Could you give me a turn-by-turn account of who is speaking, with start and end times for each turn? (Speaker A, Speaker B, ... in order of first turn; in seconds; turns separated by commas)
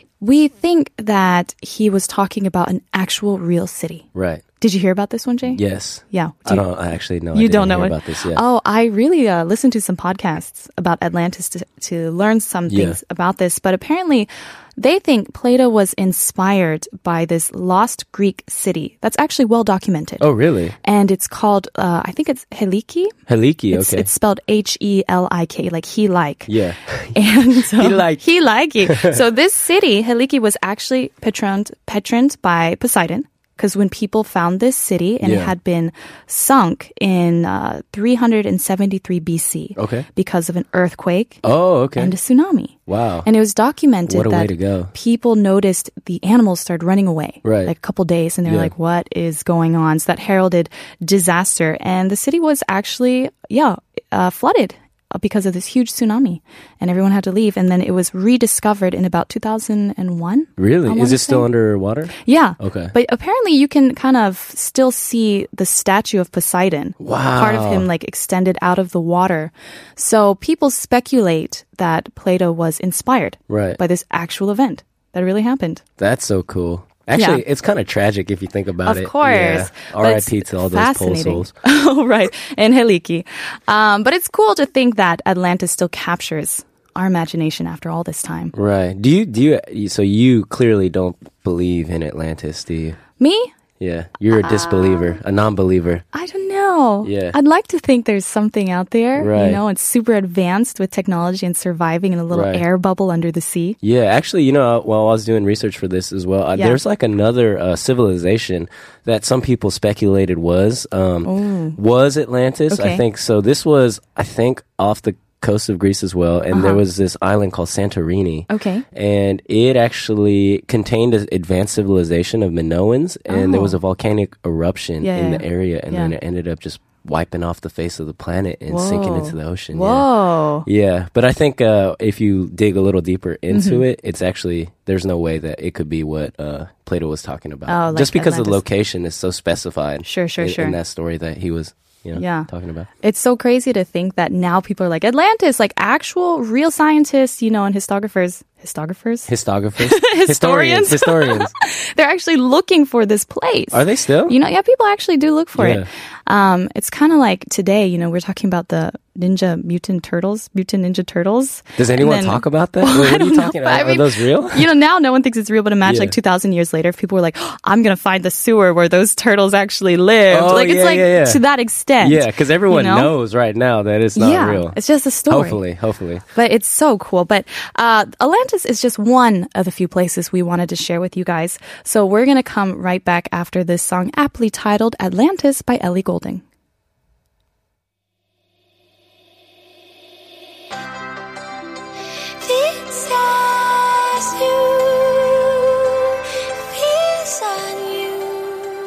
Speaker A: 0.2-4.1, Speaker B: 4.2-4.4, Speaker A: 4.6-6.7, Speaker B: 5.5-8.4, Speaker A: 7.3-20.2, Speaker B: 12.7-13.0, Speaker B: 20.2-20.8, Speaker A: 20.8-23.2, Speaker B: 23.3-24.1, Speaker A: 23.7-26.6, Speaker B: 26.5-27.2, Speaker A: 27.1-41.4, Speaker B: 27.7-28.2, Speaker B: 28.8-29.2, Speaker B: 35.2-35.5, Speaker B: 39.8-40.1, Speaker B: 41.4-42.1, Speaker A: 42.0-61.5, Speaker B: 42.9-43.3, Speaker B: 44.1-44.9, Speaker B: 47.4-47.7, Speaker B: 48.5-48.7, Speaker B: 60.6-62.9, Speaker A: 62.2-75.8, Speaker B: 67.0-67.9, Speaker B: 73.5-73.8, Speaker B: 76.0-81.5, Speaker A: 77.2-77.4, Speaker A: 78.8-88.5, Speaker B: 88.5-93.0, Speaker A: 93.2-93.5, Speaker B: 93.8-96.0, Speaker A: 94.3-95.2, Speaker A: 96.1-103.8, Speaker B: 97.0-97.4, Speaker B: 99.2-99.6, Speaker B: 102.3-102.7, Speaker B: 103.8-130.1, Speaker A: 111.2-111.8, Speaker A: 112.7-113.0, Speaker A: 116.5-116.8, Speaker A: 118.5-118.8, Speaker A: 123.3-123.8, Speaker A: 125.0-126.2, Speaker A: 128.7-130.7, Speaker B: 130.7-142.9, Speaker A: 133.5-133.8, Speaker A: 137.7-138.6, Speaker A: 140.1-140.8, Speaker A: 142.2-142.5, Speaker A: 143.0-173.1, Speaker B: 149.3-151.5, Speaker B: 153.7-154.3, Speaker B: 155.6-155.9, Speaker B: 161.8-164.7, Speaker B: 165.8-166.2, Speaker B: 170.3-171.4, Speaker B: 172.0-174.8, Speaker A: 174.2-175.6, Speaker B: 175.3-176.2, Speaker A: 176.3-186.4, Speaker C: 192.8-193.9, Speaker C: 194.9-195.3, Speaker C: 197.0-198.2